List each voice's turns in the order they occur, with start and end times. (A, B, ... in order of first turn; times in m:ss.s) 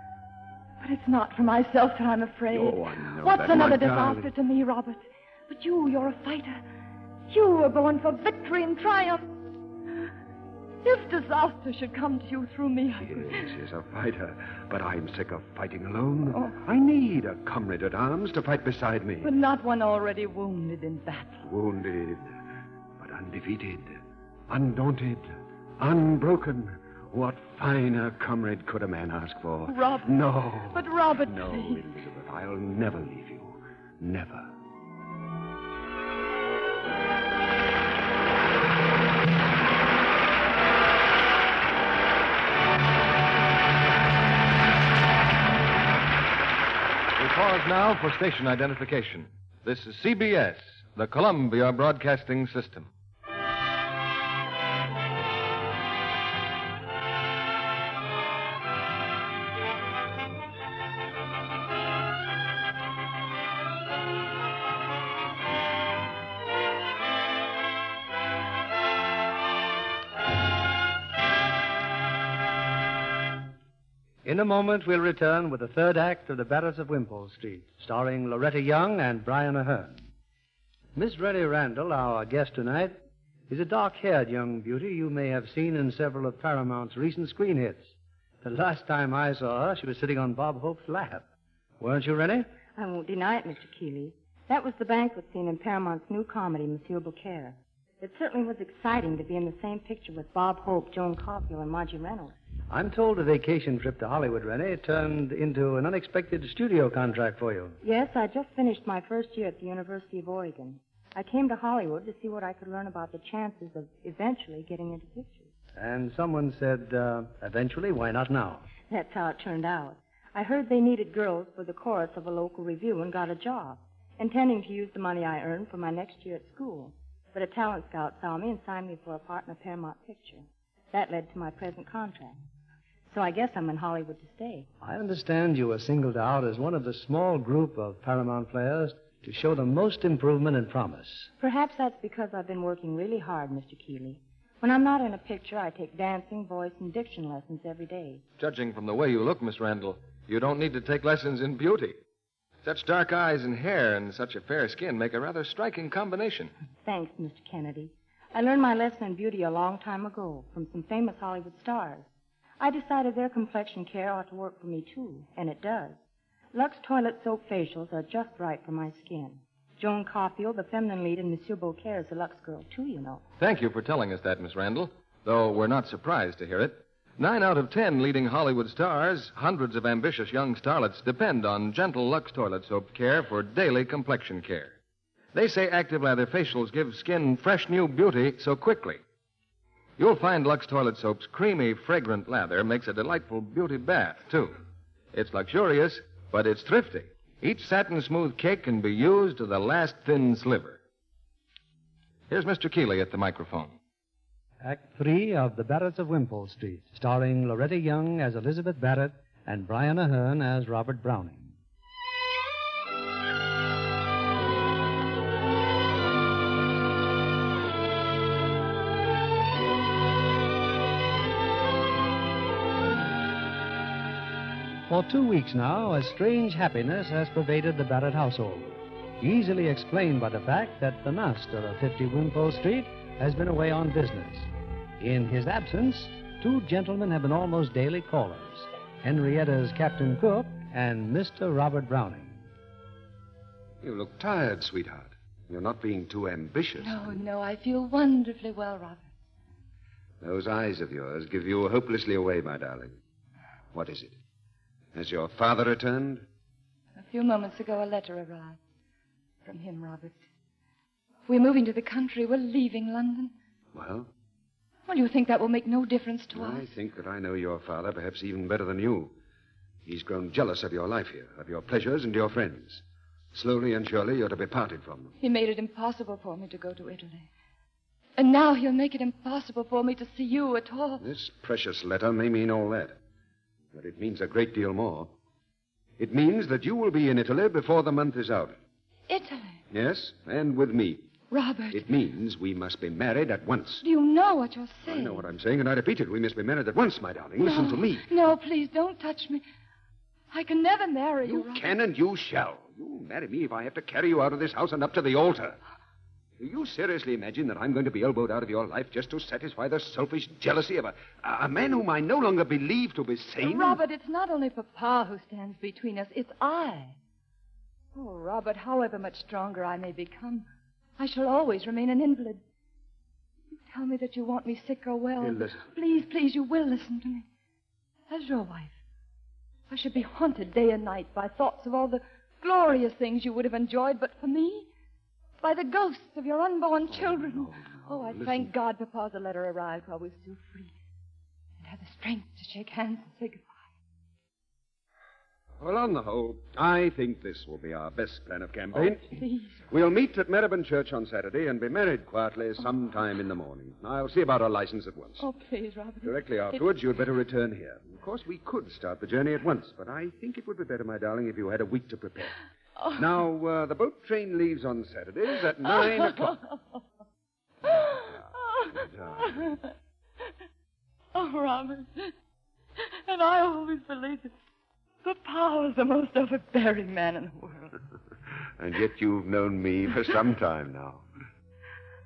0:00.8-0:06.6 A
0:02.5-0:04.3 B
0:07.3-0:09.3 A
0:10.8-0:13.4 A
0:13.0-0:19.3 B
0:19.2-0:21.4 A
0:21.4-0:22.4 B
0:23.0-0:34.5 B
0:29.7-0:30.1 A
0:30.7-0:31.8 A
0:47.2-0:52.9 C
1:14.2-1:20.0 D
1:21.0-1:31.2 D
1:31.8-1:32.5 D
1:32.8-1:42.3 E
1:42.7-1:47.8 D
1:47.8-1:55.5 E
1:55.8-1:58.6 D
1:58.9-2:12.4 E
2:13.1-2:14.7 E
2:14.8-2:21.3 D
2:21.4-2:28.2 E
2:28.4-2:32.0 C
2:32.6-2:36.5 C
2:36.8-2:42.1 E
2:42.6-2:46.0 E
2:46.5-2:53.2 E
2:53.4-3:04.8 C
3:05.3-3:09.0 C
3:10.0-3:14.6 C
3:15.1-3:20.8 C
3:22.3-3:23.7 C
3:24.6-3:31.5 D
3:44.9-4:02.4 D
4:03.8-4:07.2 B
4:06.8-4:09.1 A
4:10.2-4:13.0 B
4:13.7-4:14.1 B
4:14.9-4:16.2 B
4:17.0-4:18.6 A
4:19.4-4:20.2 A
4:21.3-4:23.3 A
4:23.7-4:24.1 B
4:24.9-4:26.7 A
4:26.3-4:29.1 B
4:29.8-4:35.2 B
4:35.2-4:37.3 A
4:38.2-4:41.0 A
4:41.0-4:43.0 B
4:43.7-4:45.1 B
4:46.0-4:48.5 B
4:49.1-4:49.6 A
4:49.7-4:51.1 B
4:51.3-4:51.8 A
4:51.7-4:53.8 B
4:53.8-4:55.3 A
4:54.8-4:58.1 B
4:57.4-4:59.4 A
5:00.3-5:01.7 A
5:01.2-5:05.6 B
5:06.4-5:13.8 B
5:13.4-5:16.9 A
5:17.9-5:20.5 A
5:21.0-5:22.4 A
5:23.7-5:27.2 A
5:25.2-5:25.7 B
5:28.1-5:28.7 A
5:29.7-5:34.7 A
5:35.4-5:40.7 A
5:36.9-5:38.5 B
5:41.6-5:43.5 A
5:45.6-5:55.2 B
5:48.7-5:49.6 A
5:55.2-5:56.8 A
5:56.0-6:02.3 B
6:02.8-6:03.0 A
6:03.0-6:06.4 B
6:05.6-6:06.4 A
6:07.6-6:09.6 B
6:07.7-6:08.0 A
6:09.2-6:09.6 A
6:11.1-6:12.1 A
6:12.8-6:14.4 A
6:15.0-6:17.7 A
6:18.6-6:21.0 B